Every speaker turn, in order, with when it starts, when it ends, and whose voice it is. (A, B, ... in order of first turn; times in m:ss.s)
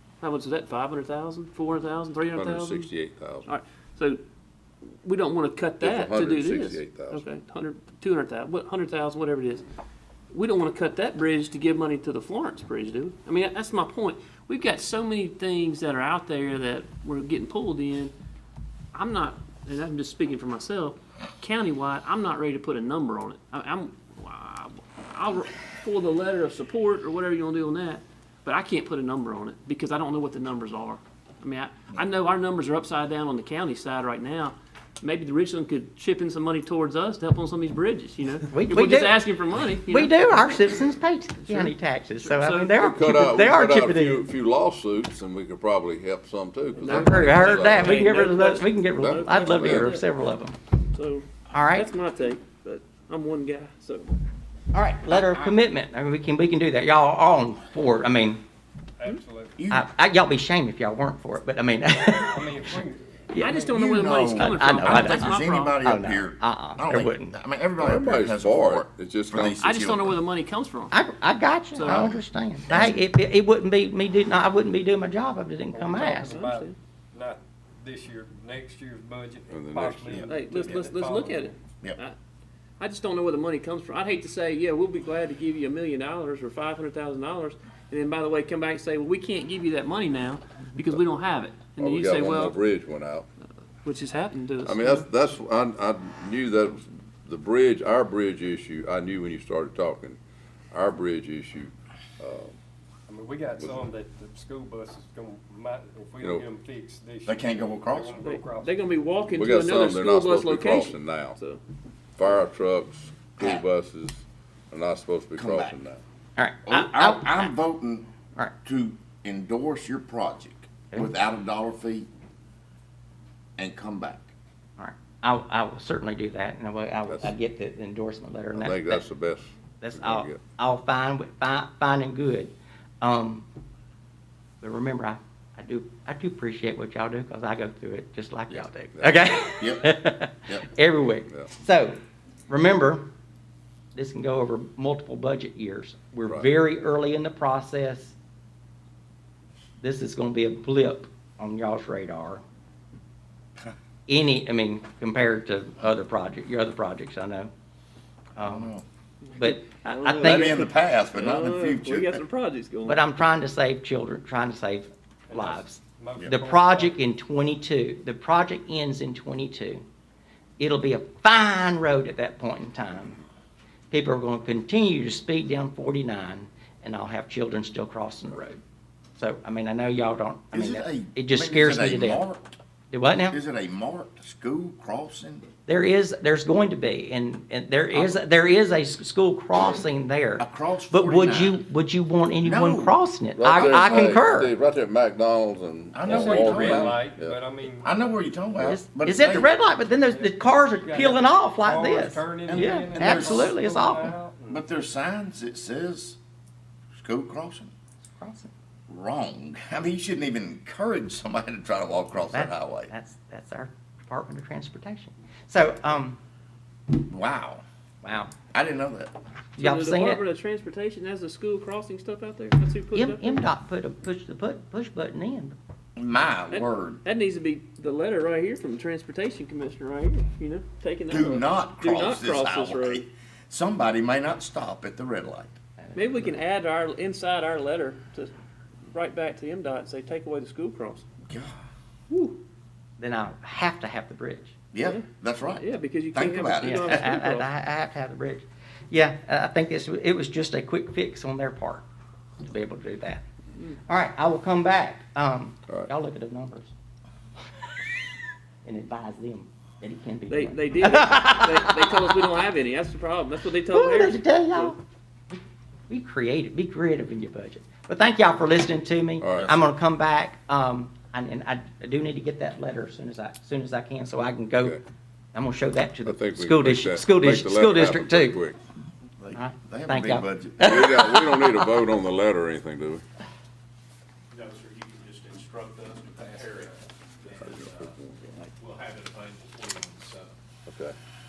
0:00.2-0:02.9 A
0:02.3-0:03.5 B
0:03.4-0:04.2 A
0:05.0-0:09.6 A
0:05.8-0:07.2 B
0:10.3-0:18.1 A
0:18.9-0:40.6 A
0:38.5-0:39.2 C
0:39.9-0:44.3 C
0:41.4-0:42.7 A
0:42.8-0:48.3 B
0:46.8-0:50.0 A
0:46.8-0:50.6 C
0:49.0-0:50.0 B
0:50.9-0:54.1 A
0:51.5-0:51.9 C
0:54.7-0:58.4 C
0:59.0-0:59.5 D
0:59.6-0:59.9 E
0:59.7-1:03.6 C
1:02.1-1:03.8 D
1:03.4-1:05.8 A
1:03.7-1:10.2 E
1:04.2-1:07.3 C
1:07.8-1:09.6 B
1:09.6-1:10.9 A
1:10.9-1:16.3 C
1:11.7-1:12.0 A
1:11.8-1:13.0 E
1:15.7-1:21.5 D
1:16.2-1:16.8 A
1:19.5-1:20.3 B
1:20.2-1:22.2 A
1:22.8-1:32.6 A
1:31.8-1:33.2 B
1:33.8-1:35.0 A
1:34.6-1:40.2 B
1:40.7-1:42.5 B
1:43.1-1:48.7 D
1:43.6-1:43.9 B
1:46.2-1:46.5 B
1:47.2-1:48.2 E
1:48.2-1:51.6 A
1:49.3-1:51.4 B
1:52.2-1:56.0 B
1:53.4-1:53.6 E
1:55.4-1:55.8 E
1:56.4-1:57.5 C
1:56.6-1:58.1 E
1:58.6-2:02.1 E
2:03.6-2:04.3 E
2:04.8-2:09.0 C
2:07.1-2:07.3 B
2:08.5-2:10.4 B
2:09.8-2:13.5 C
2:14.6-2:22.0 C
2:19.0-2:19.2 B
2:19.6-2:19.9 E
2:22.5-2:23.0 C
2:23.9-2:28.2 C
2:29.8-2:32.4 C
2:34.1-2:37.5 C
2:38.4-2:38.7 C
2:38.4-2:38.8 E
2:39.2-2:43.0 A
2:39.4-2:40.7 C
2:40.2-2:42.2 E
2:42.8-2:49.8 C
2:45.3-2:47.0 D
2:50.6-2:53.2 C
2:53.9-2:58.6 C
2:59.2-3:02.2 C
3:00.5-3:02.5 E
3:02.9-3:03.4 C
3:03.3-3:05.5 E
3:05.6-3:14.5 C
3:10.4-3:11.6 E
3:12.4-3:13.0 E
3:13.4-3:17.4 B
3:13.6-3:14.0 E
3:15.9-3:17.0 E
3:16.0-3:17.9 D
3:17.8-3:19.5 E
3:18.6-3:24.1 C
3:20.1-3:24.6 D
3:22.5-3:23.6 E
3:24.5-3:26.2 E
3:26.9-3:27.7 E
3:28.0-3:28.5 C
3:28.9-3:32.9 E
3:32.3-3:36.2 C
3:36.9-3:37.6 E
3:38.0-3:38.3 C
3:38.5-3:39.1 E
3:39.6-3:40.2 C
3:39.6-3:43.4 A
3:42.9-3:45.6 C
3:46.0-3:47.0 E
3:46.5-3:53.0 A
3:51.1-3:55.6 E
3:55.8-3:56.3 C
3:55.9-3:58.3 A
3:58.9-4:01.0 A
4:01.3-4:01.6 E
4:02.1-4:02.4 A
4:03.0-4:04.5 C
4:04.7-4:07.0 E
4:04.8-4:07.5 A
4:06.6-4:11.9 C
4:12.4-4:13.2 C
4:13.9-4:16.7 C
4:18.6-4:22.2 C
4:20.3-4:24.7 A
4:23.7-4:24.8 C
4:25.9-4:34.8 C
4:29.2-4:29.5 B
4:35.3-4:38.4 C
4:36.0-4:38.6 B
4:39.2-4:40.8 E
4:39.3-4:41.8 C
4:40.6-4:43.0 B
4:44.3-4:47.7 F
4:47.4-4:48.4 B
4:48.6-4:50.3 F
4:50.6-4:50.9 B